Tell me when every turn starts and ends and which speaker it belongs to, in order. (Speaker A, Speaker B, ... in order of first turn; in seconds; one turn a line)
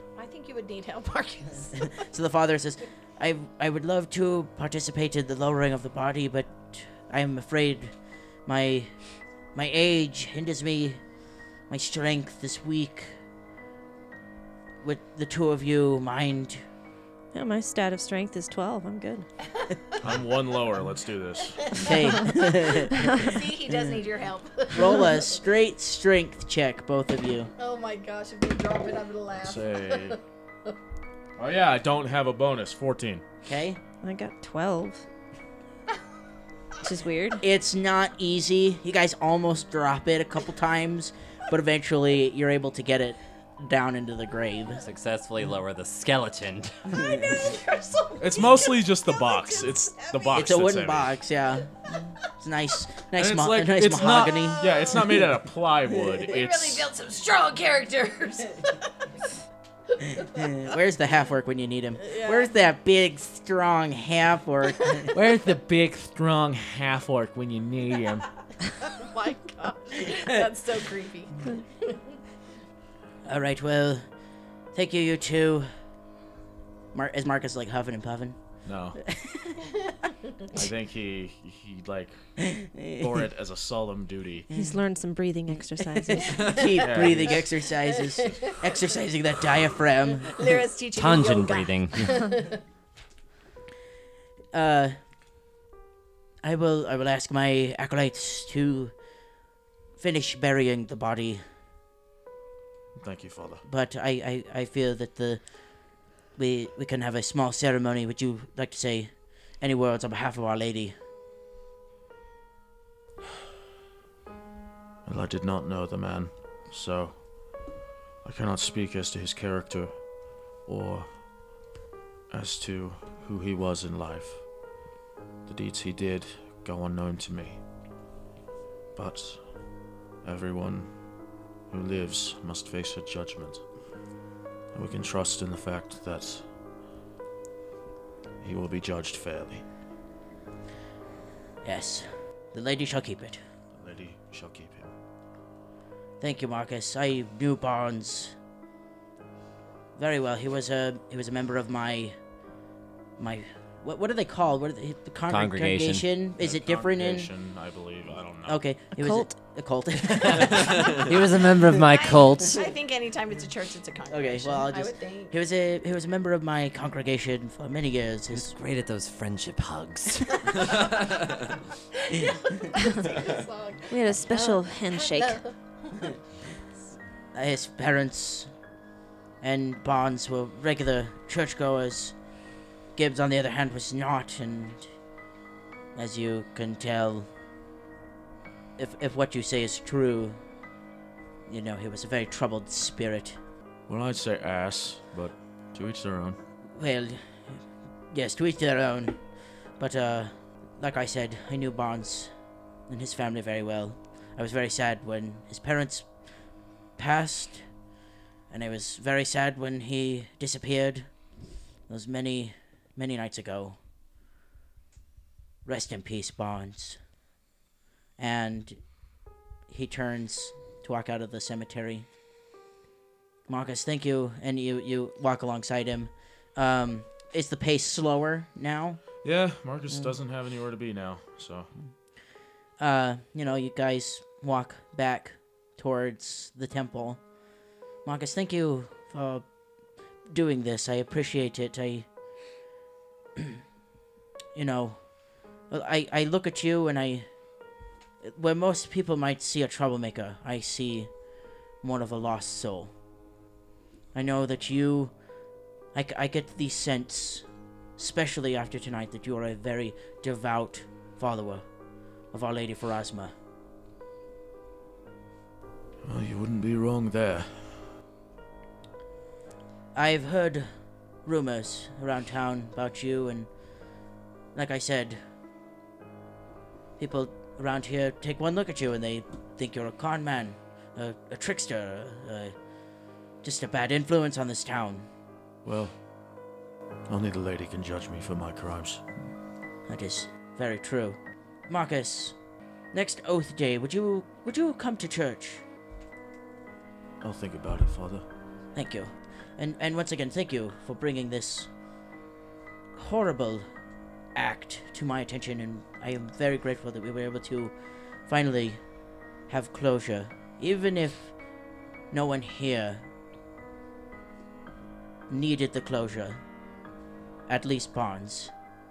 Speaker A: 0.2-1.9
Speaker B: 1.8-7.9
Speaker B: 8.5-8.9
Speaker B: 9.5-11.0
Speaker B: 11.7-13.2
Speaker B: 14.8-16.6
Speaker C: 17.3-19.3
Speaker D: 20.0-21.9
Speaker A: 21.6-25.2
Speaker B: 21.8-23.4
Speaker C: 23.0-23.3
Speaker B: 24.7-27.5
Speaker A: 27.6-30.7
Speaker D: 29.4-30.2
Speaker D: 31.4-33.2
Speaker B: 33.5-33.8
Speaker C: 34.0-35.0
Speaker C: 36.8-37.4
Speaker B: 37.4-44.8
Speaker E: 44.8-46.9
Speaker B: 46.9-47.5
Speaker A: 47.0-50.4
Speaker D: 48.2-51.1
Speaker B: 50.3-54.6
Speaker D: 53.2-56.9
Speaker A: 54.4-55.0
Speaker A: 56.3-58.9
Speaker A: 60.0-60.5
Speaker B: 60.2-65.1
Speaker A: 62.0-62.5
Speaker D: 65.1-68.3
Speaker A: 68.9-72.1
Speaker B: 73.3-74.0
Speaker B: 74.7-75.7
Speaker B: 76.9-78.4
Speaker D: 78.7-79.0
Speaker B: 79.0-79.5
Speaker D: 80.5-82.2
Speaker B: 82.4-83.1
Speaker D: 83.0-84.5
Speaker C: 84.5-86.3
Speaker B: 86.0-90.4
Speaker A: 86.3-87.1
Speaker D: 86.5-87.4
Speaker A: 87.9-88.5
Speaker A: 90.3-92.6
Speaker E: 90.9-92.2
Speaker B: 94.5-95.0
Speaker B: 96.4-98.9
Speaker B: 100.0-101.5
Speaker D: 103.0-103.6
Speaker B: 103.7-105.4
Speaker B: 106.4-111.0
Speaker D: 115.0-117.3
Speaker D: 118.2-120.1
Speaker D: 120.6-121.1
Speaker D: 122.3-124.5
Speaker D: 125.5-127.6
Speaker D: 128.9-129.4
Speaker D: 130.2-130.9
Speaker D: 131.7-133.6
Speaker D: 134.7-136.4
Speaker D: 138.4-139.6
Speaker B: 141.6-143.4
Speaker D: 143.8-144.9
Speaker B: 146.2-148.4
Speaker B: 150.0-152.2
Speaker B: 153.2-157.3
Speaker E: 155.3-156.1
Speaker D: 156.4-158.6
Speaker B: 158.5-161.1
Speaker C: 158.9-159.4
Speaker E: 161.0-162.7
Speaker A: 161.9-165.3
Speaker B: 164.1-168.5
Speaker E: 168.3-170.9
Speaker A: 172.1-176.1
Speaker C: 173.9-175.4
Speaker B: 177.3-178.5
Speaker B: 179.4-182.2
Speaker B: 182.9-184.9
Speaker B: 185.9-187.3
Speaker B: 188.8-190.4
Speaker B: 191.5-193.4
Speaker D: 193.9-196.4
Speaker B: 196.8-199.2
Speaker B: 199.8-202.3
Speaker B: 202.9-206.1
Speaker B: 207.0-207.7
Speaker B: 208.5-211.1
Speaker B: 211.9-213.8
Speaker B: 215.7-217.0
Speaker B: 218.2-218.8
Speaker B: 219.7-222.1
Speaker B: 223.5-229.0
Speaker D: 229.2-231.7
Speaker B: 232.8-237.2
Speaker B: 238.0-239.4
Speaker B: 240.3-242.1
Speaker B: 244.6-245.0
Speaker B: 245.7-247.3
Speaker B: 248.2-251.1
Speaker B: 251.8-252.9
Speaker B: 254.1-255.1
Speaker B: 255.9-257.5
Speaker B: 258.0-261.7
Speaker B: 262.3-263.3
Speaker D: 266.0-267.9
Speaker B: 269.9-270.7
Speaker B: 271.2-273.5
Speaker B: 274.6-275.2
Speaker B: 277.0-282.6
Speaker B: 283.4-285.1
Speaker D: 285.6-285.9
Speaker D: 287.1-289.0
Speaker B: 289.9-292.4
Speaker B: 292.9-295.6
Speaker D: 297.2-298.2
Speaker B: 298.8-301.7
Speaker B: 302.9-303.7
Speaker B: 304.4-307.8
Speaker B: 308.3-308.8
Speaker B: 309.5-311.3
Speaker B: 312.1-313.1
Speaker B: 315.3-316.4
Speaker B: 317.5-318.5